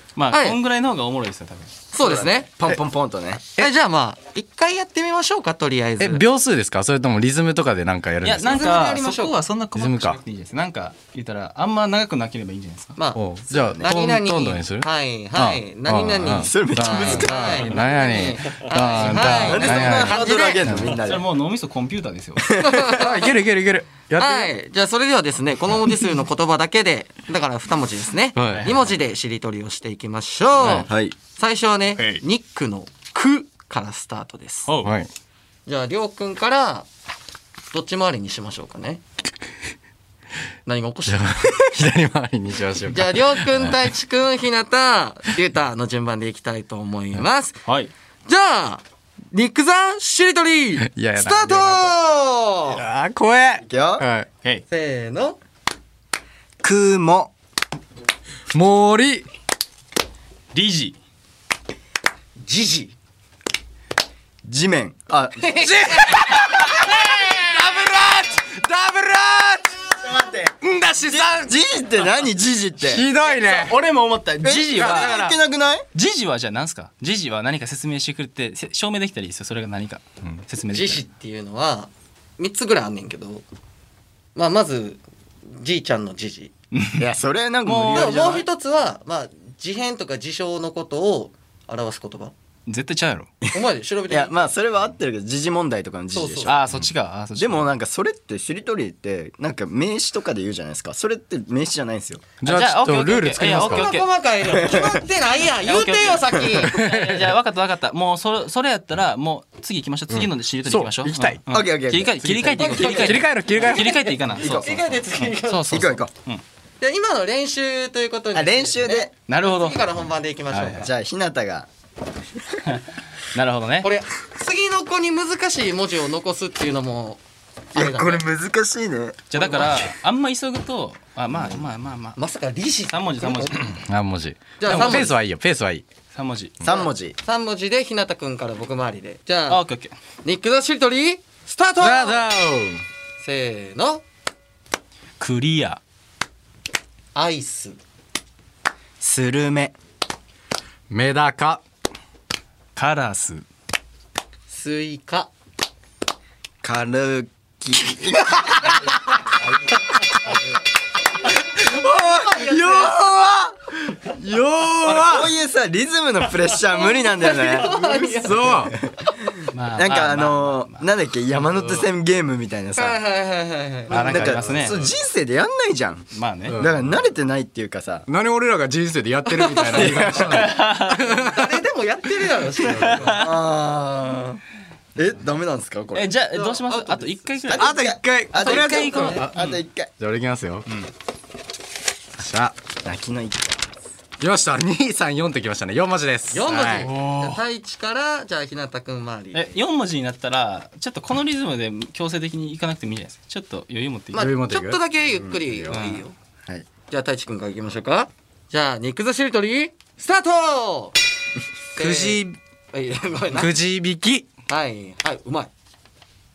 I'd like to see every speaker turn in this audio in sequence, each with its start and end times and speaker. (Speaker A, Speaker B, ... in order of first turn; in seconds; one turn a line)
Speaker A: 0.1-1.7
Speaker B: 0.3-0.6
Speaker B: 1.9-2.5
Speaker C: 2.0-3.4
Speaker B: 3.6-6.2
Speaker D: 6.0-8.6
Speaker A: 8.2-12.9
Speaker B: 8.4-9.3
Speaker D: 9.7-10.2
Speaker B: 13.0-20.9
Speaker D: 13.1-20.2
Speaker C: 13.5-13.9
Speaker C: 16.2-17.7
Speaker A: 17.2-17.9
Speaker A: 18.9-19.3
Speaker C: 19.3-21.2
Speaker A: 20.7-22.5
Speaker C: 22.5-23.0
Speaker B: 22.6-23.3
Speaker D: 22.9-24.5
Speaker B: 24.2-34.7
Speaker D: 28.4-28.7
Speaker A: 28.5-29.0
Speaker A: 30.6-30.9
Speaker C: 30.6-31.1
Speaker A: 31.9-32.2
Speaker A: 34.7-34.9
Speaker D: 34.8-35.1
Speaker B: 35.6-36.9
Speaker B: 37.7-39.0
Speaker B: 40.6-41.3
Speaker D: 41.1-43.8
Speaker B: 42.9-47.6
Speaker A: 47.6-47.9
Speaker B: 48.2-52.8
Speaker D: 50.8-51.9
Speaker D: 52.7-54.3
Speaker C: 53.6-54.0
Speaker B: 54.7-55.4
Speaker C: 56.6-57.3
Speaker D: 58.5-59.3
Speaker A: 60.5-61.0
Speaker B: 62.4-62.9
Speaker C: 64.4-65.5
Speaker B: 65.4-67.5
Speaker D: 65.6-71.5
Speaker C: 70.0-70.5
Speaker C: 71.1-73.0
Speaker D: 72.8-73.8
Speaker A: 73.3-75.3
Speaker C: 74.4-75.8
Speaker D: 74.7-75.3
Speaker A: 75.9-81.0
Speaker B: 80.7-83.4
Speaker B: 84.3-86.5
Speaker A: 86.7-87.0
Speaker C: 87.0-88.5
Speaker A: 87.6-88.1
Speaker B: 87.9-92.3
Speaker A: 92.7-93.3
Speaker B: 93.5-94.5
Speaker C: 94.1-96.6
Speaker B: 96.1-96.5
Speaker A: 96.4-97.7
Speaker C: 97.3-102.3
Speaker D: 102.4-103.9
Speaker A: 102.4-104.1
Speaker B: 103.4-106.8
Speaker C: 104.4-105.0
Speaker A: 105.6-116.4
Speaker D: 110.1-111.4
Speaker C: 111.5-113.1
Speaker B: 112.5-116.0
Speaker D: 112.9-113.9
Speaker C: 114.4-114.8
Speaker C: 115.6-116.1
Speaker B: 116.8-120.9
Speaker C: 118.3-119.1
Speaker A: 119.3-119.8
Speaker A: 120.5-120.9
Speaker C: 120.8-121.7
Speaker A: 122.6-123.9
Speaker B: 123.8-127.2
Speaker B: 127.7-128.2
Speaker C: 127.7-129.2
Speaker A: 129.3-132.2
Speaker B: 132.2-133.7
Speaker A: 132.9-133.8
Speaker D: 133.9-135.9
Speaker B: 134.6-135.1
Speaker A: 134.6-135.1
Speaker A: 136.1-136.5
Speaker C: 136.6-137.2
Speaker B: 136.7-139.6
Speaker A: 139.5-139.9
Speaker B: 140.2-142.3
Speaker D: 141.8-142.8
Speaker B: 143.2-144.0
Speaker A: 145.2-145.8
Speaker B: 147.1-147.8
Speaker C: 149.0-149.7
Speaker D: 150.9-151.6
Speaker A: 152.8-153.4
Speaker B: 154.5-155.3
Speaker C: 156.6-158.3
Speaker B: 161.5-163.0
Speaker C: 162.2-163.4
Speaker D: 163.9-165.3
Speaker C: 164.8-168.9
Speaker B: 166.8-168.6
Speaker D: 168.2-168.8
Speaker A: 169.5-170.9
Speaker C: 169.7-173.0
Speaker B: 172.8-174.3
Speaker A: 173.9-174.8
Speaker C: 173.9-178.1
Speaker D: 174.4-174.8
Speaker A: 176.1-176.6
Speaker D: 176.5-176.8
Speaker D: 178.1-181.5
Speaker B: 179.3-180.2
Speaker C: 179.7-180.5
Speaker A: 180.2-181.1
Speaker B: 181.1-183.2
Speaker D: 182.6-183.2
Speaker A: 182.7-183.3
Speaker C: 183.2-184.4
Speaker C: 184.9-186.1
Speaker A: 185.9-187.8
Speaker B: 186.3-187.3
Speaker C: 187.5-189.9
Speaker D: 187.6-190.7
Speaker A: 188.3-189.6
Speaker B: 188.5-189.2
Speaker D: 192.2-192.7
Speaker C: 192.8-193.7
Speaker D: 194.2-197.4
Speaker B: 196.3-199.6
Speaker A: 199.3-204.3
Speaker B: 204.1-206.1
Speaker D: 204.2-204.8
Speaker C: 205.2-205.5
Speaker A: 205.7-206.1
Speaker B: 206.9-210.9
Speaker B: 211.7-213.6
Speaker D: 211.8-212.4
Speaker D: 213.3-214.3
Speaker B: 214.5-215.5